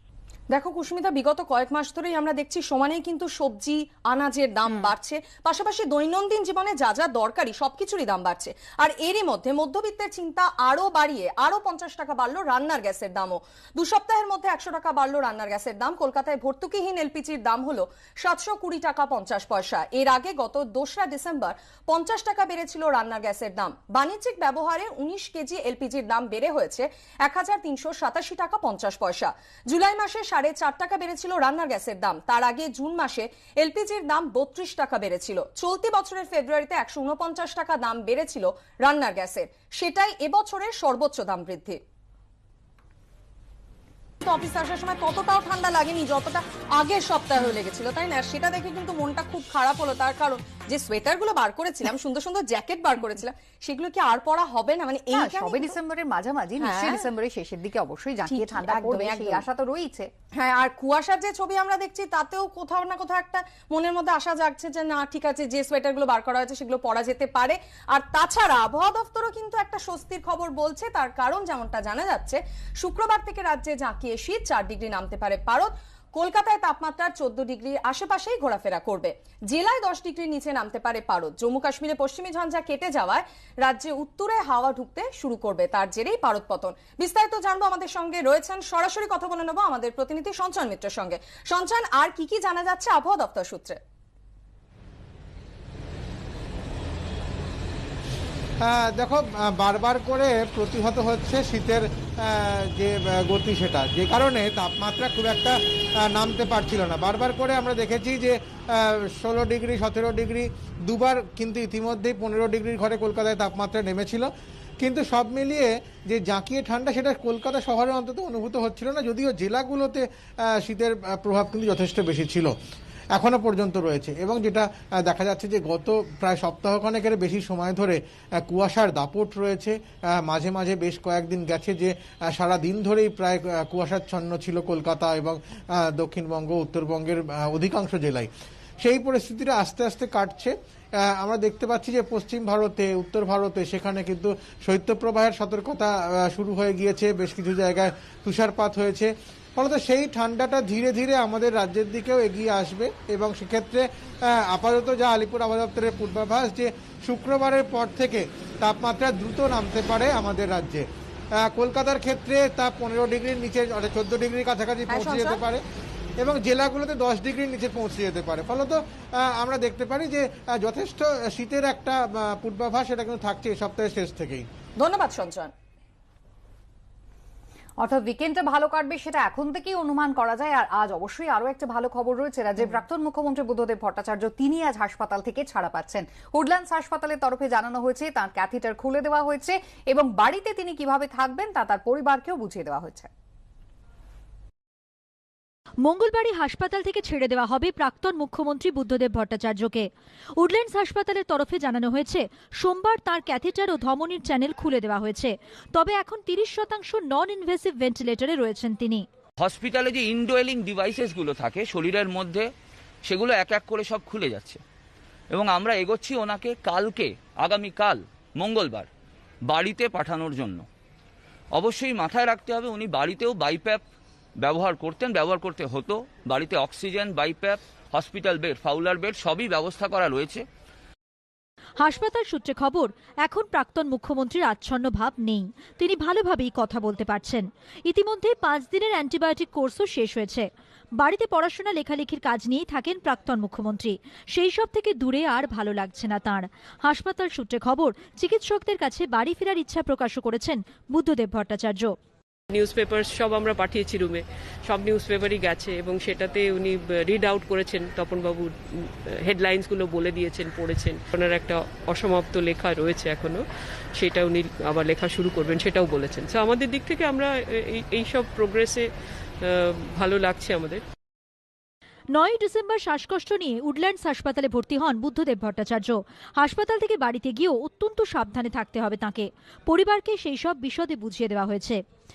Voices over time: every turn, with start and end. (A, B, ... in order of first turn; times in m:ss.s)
0:00.5-0:41.8 A
0:04.7-0:04.9 B
0:44.2-0:55.8 A
0:55.1-1:00.1 B
0:56.6-0:57.1 A
0:58.2-0:59.4 A
1:00.4-1:33.8 A
1:38.6-1:45.6 C
1:46.1-2:00.0 C
2:00.6-2:02.5 C
2:03.1-2:18.3 C
2:18.8-2:40.9 C
2:41.4-2:45.6 C
2:44.9-2:45.4 A
2:46.2-2:54.4 C
2:54.8-2:55.5 A
2:57.8-3:13.1 B
3:15.8-3:29.0 D
3:29.4-3:32.5 E
3:33.0-3:34.6 E
3:35.3-3:38.9 E
3:39.4-3:40.6 E
3:41.5-3:43.8 E
3:44.4-3:50.5 E
3:51.8-4:00.5 D
4:01.0-4:11.9 D
4:12.5-4:28.9 F
4:29.4-4:30.8 F
4:32.1-4:41.8 D